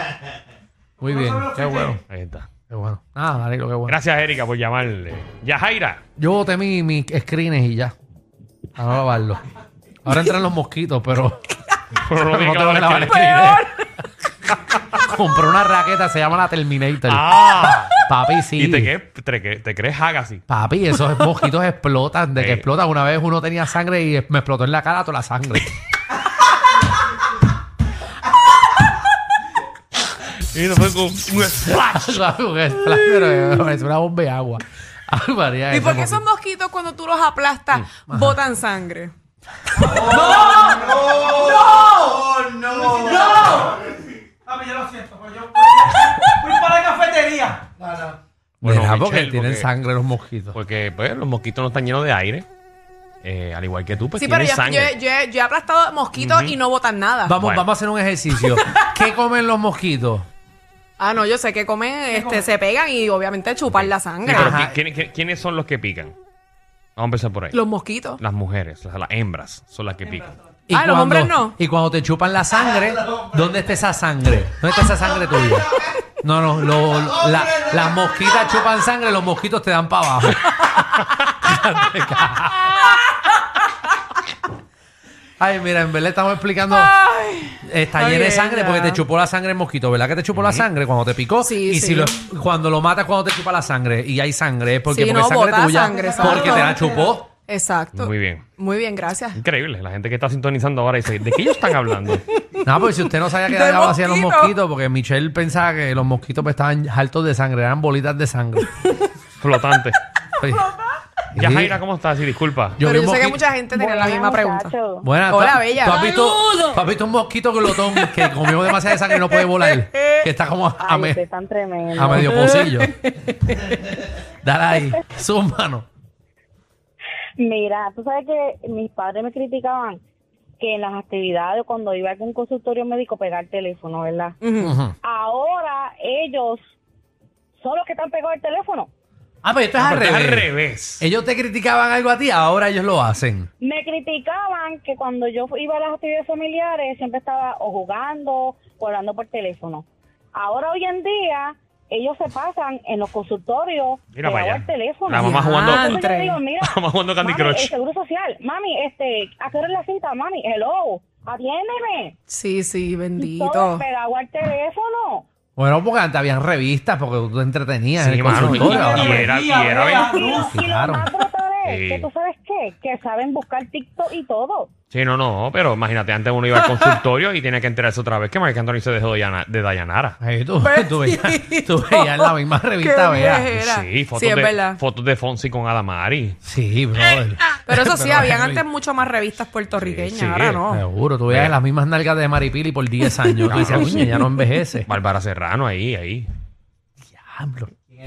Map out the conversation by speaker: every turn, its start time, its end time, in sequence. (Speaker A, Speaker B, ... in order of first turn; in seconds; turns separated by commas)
Speaker A: 1.0-2.0, Speaker B: 1.0-2.0, Speaker C: 2.1-2.5, Speaker A: 2.7-4.0, Speaker C: 3.9-6.0, Speaker A: 6.2-7.9, Speaker A: 8.8-9.4, Speaker A: 10.0-11.4, Speaker C: 11.9-13.5, Speaker A: 12.1-13.7, Speaker D: 13.2-13.6, Speaker A: 14.9-17.4, Speaker C: 17.1-18.0, Speaker A: 18.0-18.9, Speaker C: 18.5-20.4, Speaker A: 20.5-25.7, Speaker C: 22.4-22.6, Speaker C: 30.2-32.2, Speaker A: 31.8-36.2, Speaker C: 32.8-33.1, Speaker D: 35.7-39.1, Speaker A: 38.1-38.4, Speaker B: 39.8-41.4, Speaker D: 40.4-40.8, Speaker D: 41.5-41.8, Speaker B: 42.7-43.8, Speaker B: 44.5-47.7, Speaker A: 48.6-50.5, Speaker C: 48.6-49.7, Speaker C: 50.5-52.5, Speaker C: 53.2-54.9, Speaker D: 54.1-57.3, Speaker C: 56.2-56.6, Speaker A: 57.2-60.3, Speaker C: 57.4-57.7, Speaker D: 58.4-58.9, Speaker D: 61.0-64.6, Speaker B: 62.1-62.5, Speaker C: 63.7-66.1, Speaker A: 64.2-64.7, Speaker C: 67.0-67.6, Speaker D: 67.5-68.2, Speaker C: 68.2-70.3, Speaker A: 70.7-82.8, Speaker D: 70.7-71.6, Speaker A: 85.4-86.9, Speaker D: 86.7-89.0, Speaker A: 87.6-97.3, Speaker C: 90.3-90.7, Speaker D: 91.4-92.2, Speaker D: 94.9-99.4, Speaker C: 97.9-98.5, Speaker C: 99.3-102.2, Speaker A: 102.6-108.7, Speaker D: 103.3-104.5, Speaker C: 109.4-110.0, Speaker A: 110.4-110.7, Speaker A: 111.3-111.8, Speaker C: 111.4-112.8, Speaker A: 112.8-113.4, Speaker D: 112.8-116.8, Speaker E: 113.7-115.1, Speaker A: 115.0-121.2, Speaker D: 117.8-120.2, Speaker E: 120.8-122.4, Speaker A: 121.9-123.0, Speaker D: 122.2-123.1, Speaker A: 124.4-125.8, Speaker E: 127.4-130.0, Speaker E: 130.6-134.4, Speaker D: 134.4-134.8, Speaker A: 134.6-134.9, Speaker E: 135.0-136.6, Speaker E: 137.6-138.9, Speaker A: 139.4-143.5, Speaker C: 139.8-141.0, Speaker E: 143.6-149.8, Speaker E: 150.3-162.2, Speaker C: 154.1-156.0, Speaker D: 155.2-156.4, Speaker C: 156.6-157.7, Speaker D: 162.3-163.8, Speaker E: 163.2-165.2, Speaker A: 165.6-169.3, Speaker C: 168.0-170.2, Speaker B: 168.3-170.5, Speaker E: 168.5-169.3, Speaker E: 169.9-174.7, Speaker A: 170.5-171.1, Speaker C: 171.6-172.1, Speaker C: 174.9-180.2, Speaker D: 176.5-176.9, Speaker A: 180.2-183.7, Speaker D: 180.6-184.8, Speaker C: 183.6-186.4, Speaker A: 186.4-188.6, Speaker D: 187.6-190.8, Speaker C: 189.7-190.6, Speaker A: 190.7-194.9, Speaker C: 191.3-191.6, Speaker D: 193.1-194.3, Speaker C: 193.5-194.0, Speaker C: 194.8-196.3, Speaker A: 197.1-197.7